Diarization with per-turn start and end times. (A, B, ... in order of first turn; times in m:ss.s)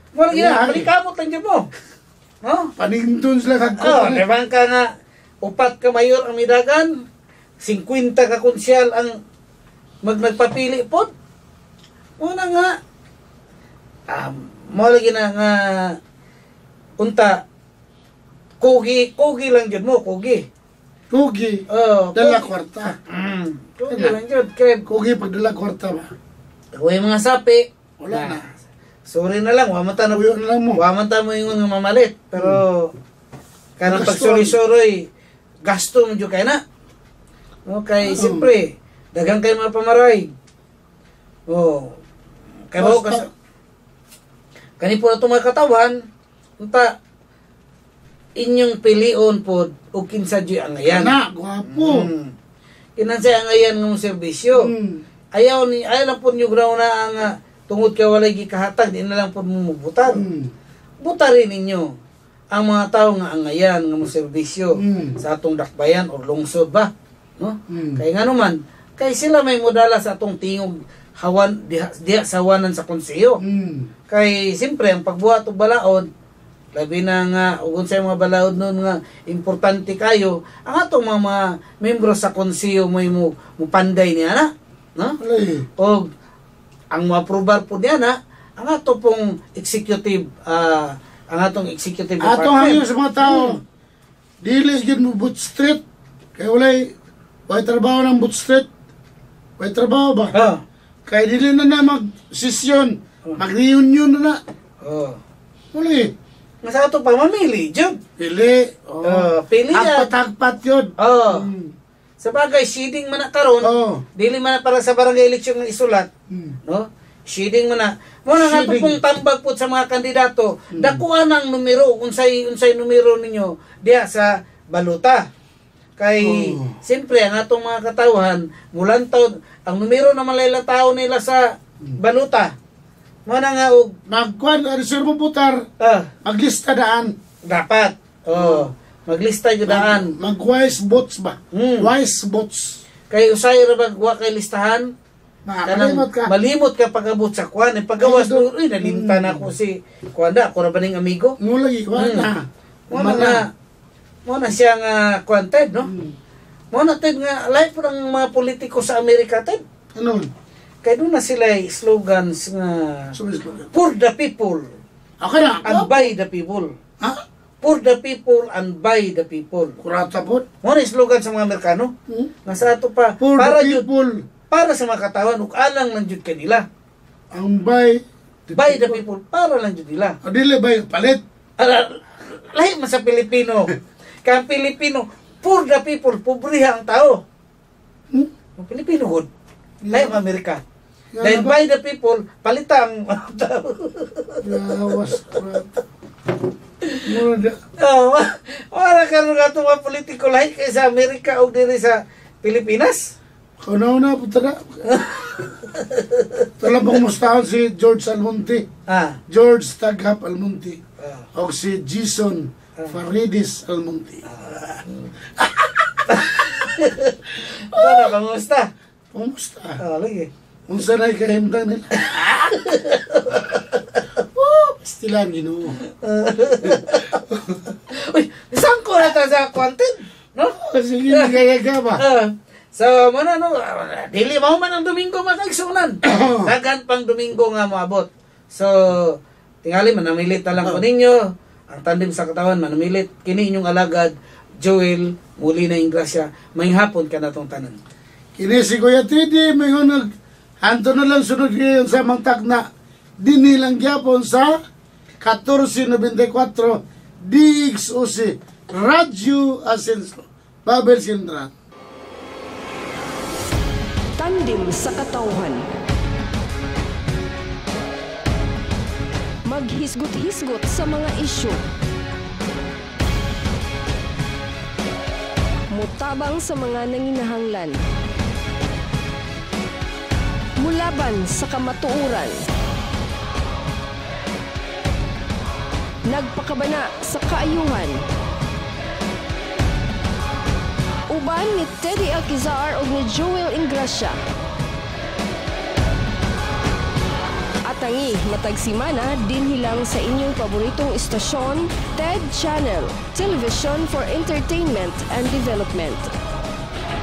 0:00.2-0:01.7 A
0:00.3-0:00.9 B
0:02.4-0:02.7 A
0:02.8-0:04.2 B
0:03.8-0:04.9 A
0:05.4-0:06.9 A
0:07.6-0:09.2 A
0:10.0-0:11.1 A
0:12.2-0:12.7 A
0:14.1-0:16.0 A
0:17.0-0:17.4 A
0:18.6-0:20.4 A
0:21.1-0:21.6 B
0:21.7-0:22.5 A
0:22.2-0:23.0 B
0:23.1-0:24.8 A
0:23.9-0:24.2 B
0:24.9-0:26.1 B
0:26.8-0:28.5 A
0:28.0-0:28.5 B
0:29.1-0:30.2 A
0:30.1-0:30.8 B
0:30.8-0:32.9 A
0:32.4-0:32.6 B
0:33.8-0:35.1 A
0:33.9-0:34.6 B
0:35.7-0:36.6 A
0:37.7-0:40.3 A
0:38.0-0:38.5 B
0:41.5-0:42.0 A
0:42.7-0:43.3 A
0:42.8-0:43.3 B
0:44.8-0:46.0 A
0:46.6-0:46.9 A
0:48.4-0:51.1 A
0:50.8-0:52.1 B
0:51.6-0:52.3 A
0:53.0-0:54.7 A
0:54.6-0:55.0 B
0:55.4-1:00.2 A
1:00.1-1:00.5 B
1:01.0-1:01.9 A
1:02.5-1:13.4 A
1:04.8-1:05.2 B
1:07.7-1:08.0 B
1:13.4-1:13.9 B
1:14.1-1:16.1 A
1:16.8-1:25.2 A
1:25.2-1:25.7 B
1:25.8-1:26.1 A
1:26.9-1:33.6 A
1:32.2-1:33.6 B
1:34.4-1:35.8 B
1:36.4-1:36.9 B
1:37.5-1:38.7 B
1:39.6-1:40.3 B
1:40.3-1:40.6 A
1:41.1-1:44.4 B
1:44.8-1:45.2 A
1:45.7-1:46.1 B
1:46.6-1:48.0 A
1:48.2-1:51.7 B
1:49.1-1:50.1 A
1:51.0-1:51.5 A
1:52.2-1:56.1 A
1:53.6-1:54.0 B
1:56.3-1:56.6 B
1:56.7-2:05.3 A
1:58.3-1:59.0 B
2:00.8-2:01.0 B
2:06.0-2:11.4 A
2:06.2-2:06.8 B
2:12.0-2:12.5 A
2:13.3-2:13.9 A
2:14.1-2:15.6 B
2:15.8-2:16.1 A
2:16.2-2:17.1 B
2:17.5-2:20.1 A
2:18.3-2:18.7 B
2:19.7-2:22.8 B
2:21.5-2:21.9 A
2:23.1-2:24.9 A
2:25.5-2:26.3 B
2:25.7-2:31.4 A
2:28.0-2:29.5 B
2:31.4-2:33.4 B
2:32.0-2:32.3 A
2:32.9-2:33.5 A
2:34.3-2:35.9 A
2:35.8-2:36.2 B
2:36.7-2:39.6 A
2:40.0-2:40.3 B
2:40.8-2:43.1 A
2:43.2-2:43.7 B
2:43.7-2:44.7 A
2:45.2-2:46.1 B
2:45.6-2:46.7 A
2:47.6-2:49.8 A
2:49.8-2:50.4 B
2:50.6-2:51.9 A
2:52.1-2:52.3 B
2:52.5-2:53.8 A
2:53.2-2:54.2 B
2:54.5-2:56.6 A
2:57.3-2:59.0 B
2:58.6-3:00.2 A
3:00.2-3:01.2 B
3:01.6-3:03.7 A
3:04.2-3:07.2 A
3:08.6-3:09.3 A
3:09.8-3:10.2 B
3:09.9-3:10.6 A
3:11.2-3:11.6 B
3:11.2-3:15.4 A
3:14.4-3:15.7 B
3:17.0-3:17.6 B
3:17.8-3:23.1 A
3:23.6-3:25.5 B
3:24.9-3:26.5 A
3:26.6-3:28.7 B
3:28.9-3:29.2 A
3:29.3-3:30.8 B
3:31.0-3:31.3 A
3:31.4-3:34.2 B
3:34.3-3:34.9 A
3:35.4-3:36.7 B
3:36.1-3:37.2 A
3:37.7-3:38.2 B
3:37.7-3:38.7 A
3:39.1-3:39.8 B
3:39.8-3:40.3 A
3:40.7-3:42.5 B
3:42.0-3:44.0 A
3:44.4-3:45.8 B
3:46.0-3:47.2 A
3:46.6-3:47.6 B
3:47.9-3:50.6 A
3:50.6-3:52.0 B
3:51.1-3:51.4 A
3:52.0-4:07.8 A
3:56.0-3:56.5 B
4:08.4-4:10.1 B
4:10.6-4:12.6 B
4:13.2-4:14.6 B
4:15.2-4:21.5 B
4:24.2-4:25.6 C
4:29.5-4:31.6 C
4:35.7-4:37.8 C
4:40.6-4:42.4 C
4:46.1-4:48.0 C
4:51.1-4:54.2 C
4:57.7-5:06.1 C